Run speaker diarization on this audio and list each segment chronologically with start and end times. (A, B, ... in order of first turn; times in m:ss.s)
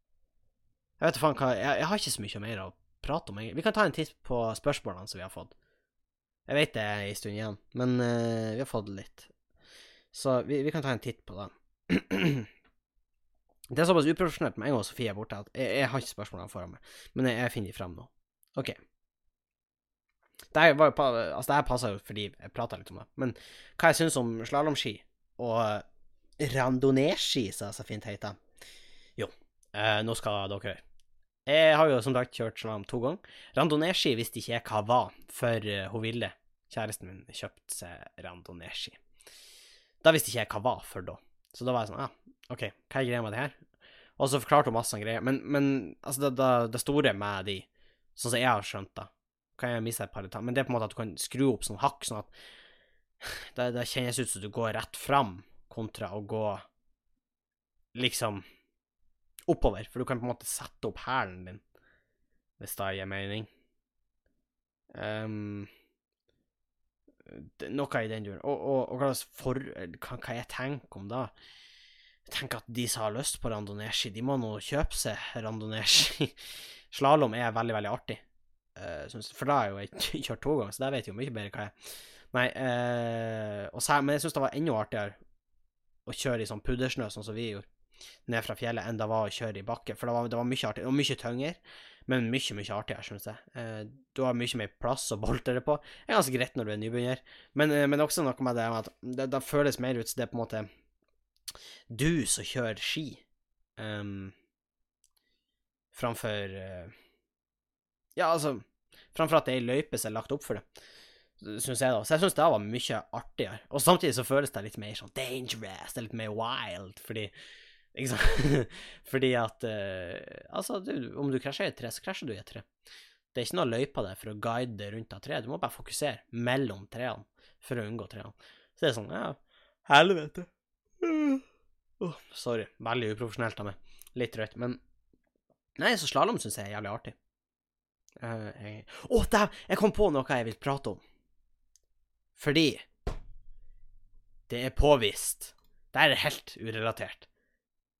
0:01.0-0:05.5 A
0:06.5-0:09.3 A
0:10.1-0:12.5 A
0:13.7-0:18.8 A
0:20.5-0:25.8 A
0:26.4-0:28.4 A
0:29.2-0:30.8 A
0:31.4-0:39.0 A
0:40.0-0:43.6 A
0:44.2-0:52.3 A
0:53.2-0:56.6 A
0:57.9-0:58.4 A
0:59.5-1:01.6 A
1:02.6-1:03.5 A
1:04.9-1:05.7 A
1:07.3-1:11.3 A
1:12.2-1:18.2 A
1:18.8-1:25.2 A
1:26.0-1:27.7 A
1:28.2-1:40.7 A
1:41.9-1:43.2 A
1:43.8-1:44.3 A
1:45.9-1:46.9 A
1:48.2-1:50.6 A
1:51.4-1:57.3 A
1:57.9-2:02.6 A
2:03.3-2:10.5 A
2:11.0-2:11.4 A
2:12.0-2:14.8 A
2:15.8-2:17.1 A
2:18.2-2:21.0 A
2:22.4-2:22.9 A
2:24.5-2:27.3 A